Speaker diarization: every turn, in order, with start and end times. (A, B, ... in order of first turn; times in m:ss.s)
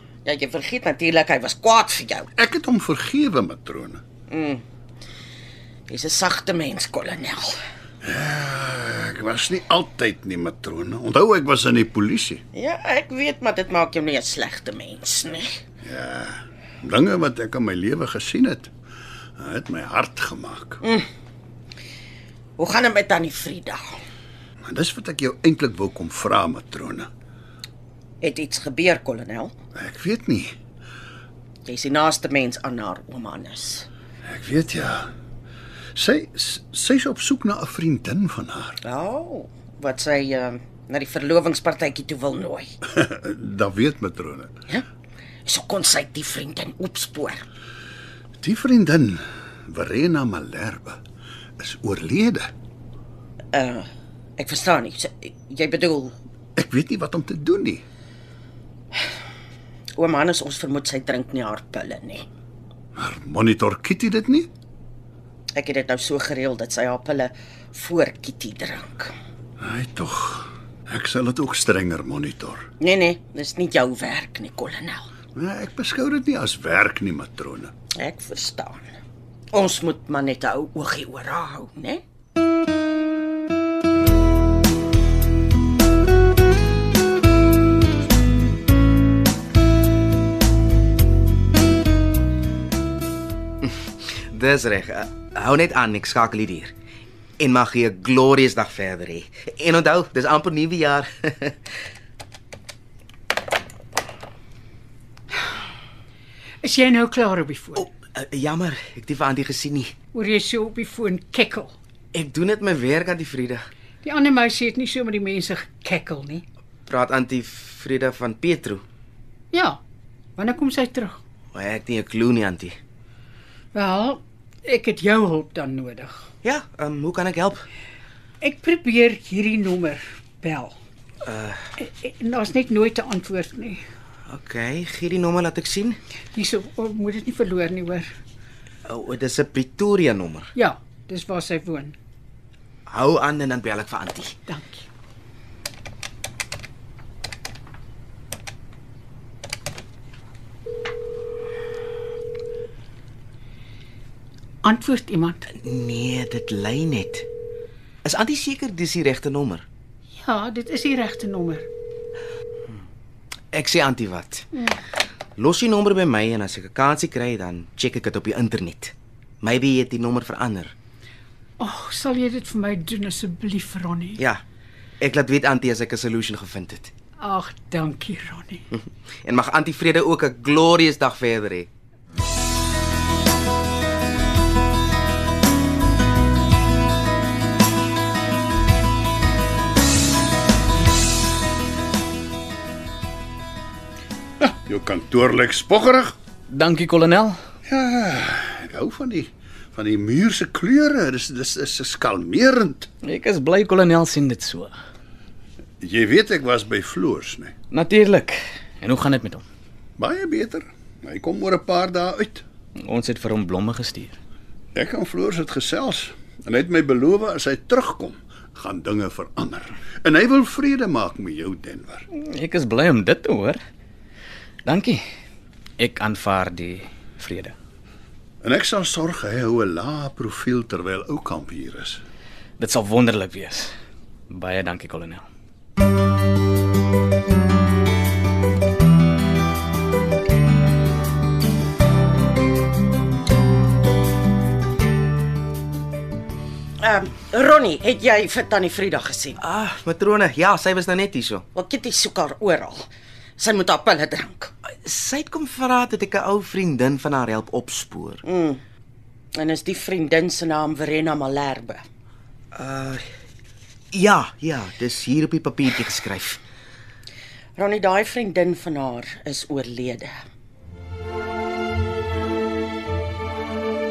0:00.2-0:02.3 A
0:02.4-0:04.0 B
0:04.3-0:04.6 A
0:05.9-0:07.5 A
0:08.0-0:12.4 B
0:12.5-0:15.6 A
0:15.8-0:18.7 B
0:19.4-0:20.8 B
0:22.6-0:24.0 A
0:24.6-0:27.1 B
0:28.2-0:29.5 A
0:29.7-0:30.5 B
0:31.6-0:33.9 A
0:34.2-0:35.1 B
0:35.9-0:38.8 B
0:38.8-0:42.7 A
0:42.9-0:44.5 B
0:45.4-0:47.5 A
0:48.4-0:51.0 B
0:51.6-0:52.5 B
0:53.5-0:56.1 A
0:56.6-0:57.8 B
1:00.0-1:02.2 A
1:03.0-1:04.5 B
1:05.5-1:09.1 A
1:09.6-1:12.7 B
1:12.8-1:15.1 A
1:15.4-1:17.7 B
1:17.9-1:18.9 A
1:19.5-1:22.0 A
1:33.6-1:36.7 C
1:37.4-1:41.6 C
1:46.6-1:47.9 D
1:47.8-1:49.9 C
1:50.1-1:51.7 D
1:52.1-1:53.6 C
1:54.0-1:56.4 D
1:56.9-1:58.8 C
1:59.5-1:59.8 D
2:00.4-2:01.2 D
2:01.5-2:02.8 C
2:03.7-2:06.2 D
2:06.4-2:07.6 C
2:08.4-2:10.7 D
2:11.2-2:11.6 C
2:11.8-2:13.8 D
2:14.3-2:16.0 C
2:16.3-2:18.1 D
2:18.8-2:20.5 C
2:20.5-2:21.9 D
2:22.9-2:24.3 C
2:24.5-2:24.8 D
2:34.6-2:35.5 D
2:35.6-2:37.2 C
2:38.0-2:39.6 C
2:40.1-2:41.7 D
2:43.5-2:44.4 C
2:45.4-2:50.7 C
2:51.6-2:54.2 D
2:55.0-2:56.9 C
2:57.2-2:58.7 D
2:58.7-3:01.7 C
3:14.4-3:16.1 B
3:16.5-3:17.4 E
3:17.7-3:22.9 B
3:23.0-3:24.7 E
3:25.8-3:27.5 B
3:27.7-3:29.4 E
3:30.0-3:32.4 B
3:32.8-3:34.2 E
3:34.7-3:42.0 B
3:42.1-3:43.6 E
3:44.6-3:45.0 E
3:45.8-3:47.5 E
3:48.4-3:52.0 B
3:52.6-3:53.7 E
3:54.3-3:55.2 E
4:06.8-4:09.4 A
4:09.4-4:11.4 C
4:11.5-4:14.5 A
4:14.8-4:18.2 C
4:18.2-4:18.6 A
4:19.3-4:21.8 A
4:22.5-4:23.0 C
4:23.9-4:26.4 C
4:27.6-4:30.2 A